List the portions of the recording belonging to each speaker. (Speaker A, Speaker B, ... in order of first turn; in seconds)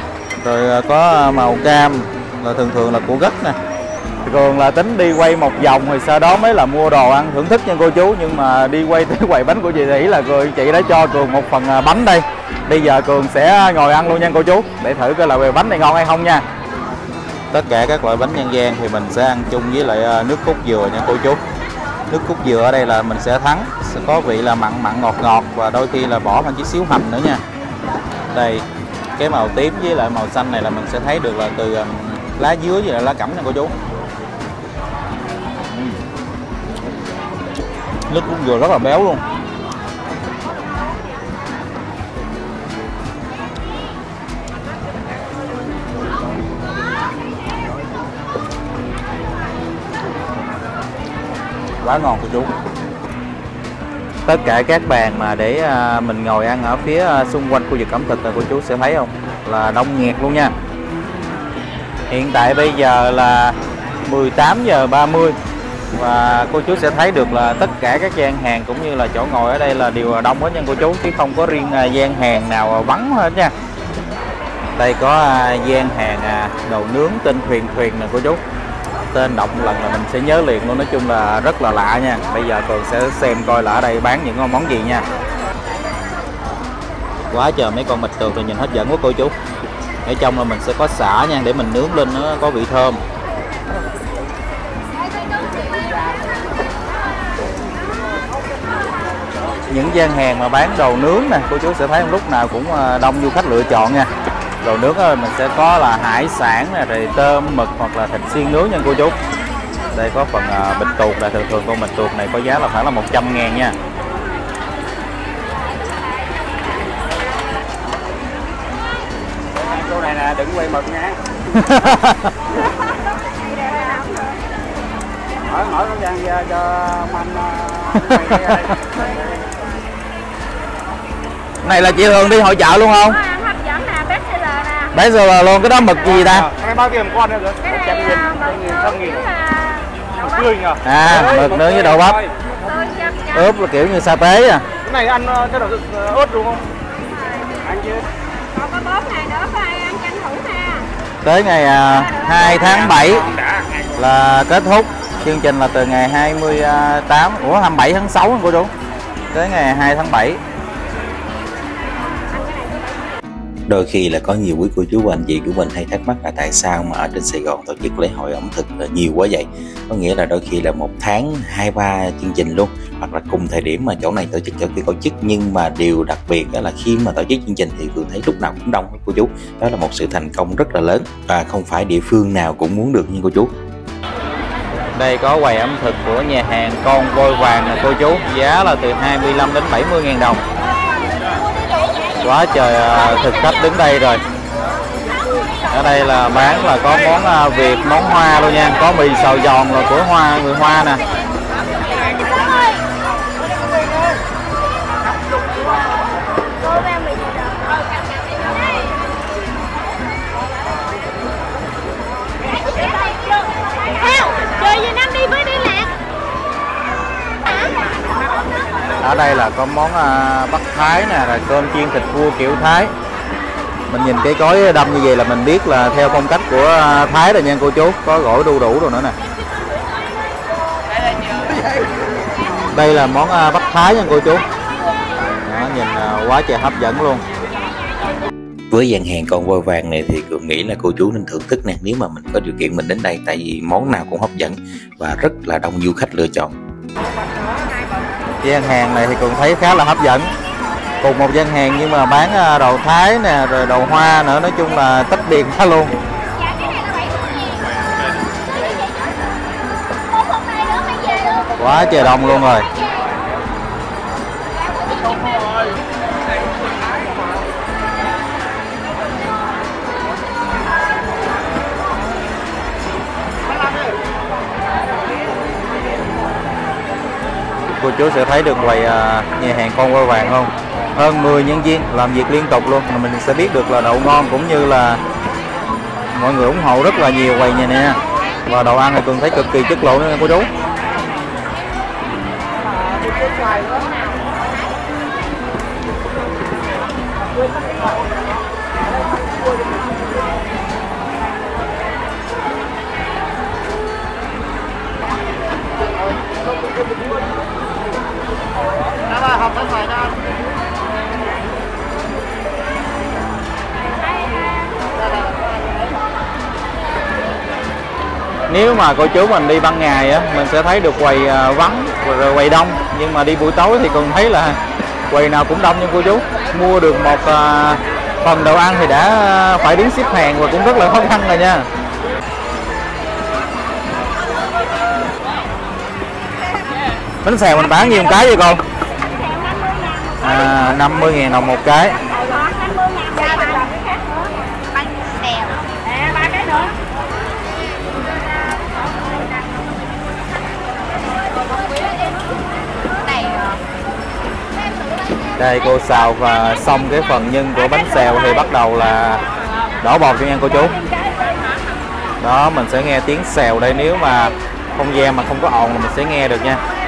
Speaker A: 0.4-3.5, 4.2-16.4, 17.5-21.4, 22.1-27.4, 28.3-28.6, 29.2-33.7, 35.7-36.0, 38.1-39.2, 51.8-52.5, 54.2-60.5, 62.1-65.3, 65.9-73.5, 74.8-78.4, 79.1-85.0, 87.3-89.3, 90.0-93.0, 99.7-104.1, 104.6-109.1, 109.9-113.7, 121.5-122.3, 128.0-128.4, 131.6-133.2, 134.9-136.5, 140.8-142.2, 143.3-144.6, 151.2-153.2, 154.0-158.7, 159.3-160.4, 184.9-190.4, 192.2-194.2, 195.7-201.0, 219.0-222.9, 223.9-229.2, 232.7-234.4, 235.4-237.2, 248.4-250.3, 251.0-255.9, 261.6-262.6, 277.8-285.0, 286.1-290.5, 318.5-324.6, 325.1-331.6, 337.2-338.6, 340.2-342.0, 355.4-359.2, 359.8-360.7, 362.2-366.6
Speaker B: 119.5-121.2, 125.4-129.4, 136.2-139.2, 140.2-140.8, 141.3-141.8, 144.9-146.6, 147.6-148.0, 152.4-153.7
Speaker C: 122.5-124.4, 133.2-134.9, 137.6-140.4, 142.6-143.3, 147.2-147.4, 148.5-150.9, 162.3-163.0, 201.9-202.8, 206.6-207.7, 212.6-215.1, 260.8-261.1, 339.0-340.7, 342.0-344.3, 345.8-346.7, 360.8-361.4
Speaker D: 163.7-183.5, 238.7-246.5